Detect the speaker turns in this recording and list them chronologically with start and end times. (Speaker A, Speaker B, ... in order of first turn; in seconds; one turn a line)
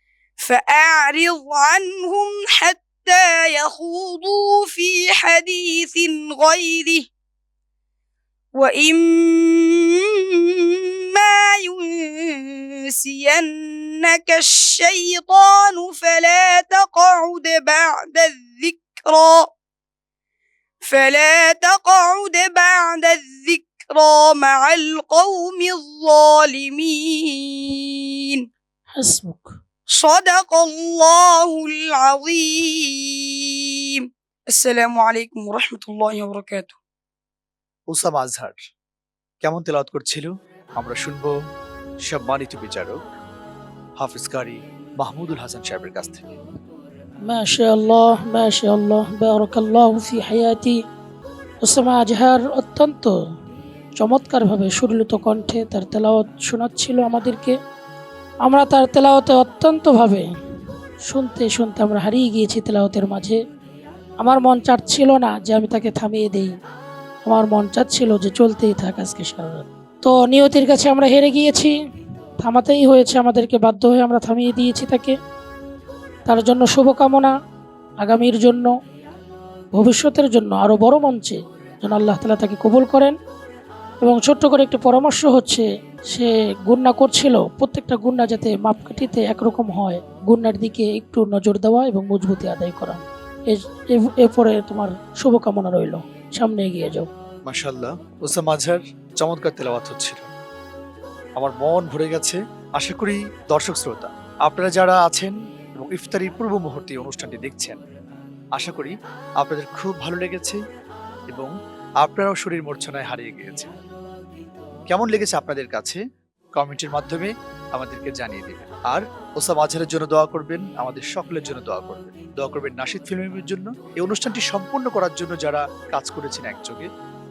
Speaker A: 0.4-7.0
Speaker A: 8.6-19.5
Speaker A: 20.9-28.4
Speaker B: 29.0-29.5
Speaker A: 30.0-34.0
Speaker A: 34.6-36.8
Speaker C: 37.9-38.6
Speaker C: 39.4-41.3
Speaker C: 42.0-43.0
Speaker C: 44.0-46.4
Speaker B: 47.3-50.8
Speaker B: 51.6-53.1
Speaker B: 54.0-57.5
Speaker B: 58.4-60.2
Speaker B: 61.1-63.4
Speaker B: 64.2-66.6
Speaker B: 67.2-71.7
Speaker B: 72.4-75.1
Speaker B: 76.3-77.3
Speaker B: 78.0-78.7
Speaker B: 79.7-83.2
Speaker B: 84.0-97.1
Speaker C: 97.5-100.3
Speaker C: 101.4-107.8
Speaker C: 108.5-110.6
Speaker C: 111.3-113.7
Speaker C: 114.9-116.0
Speaker C: 116.5-126.9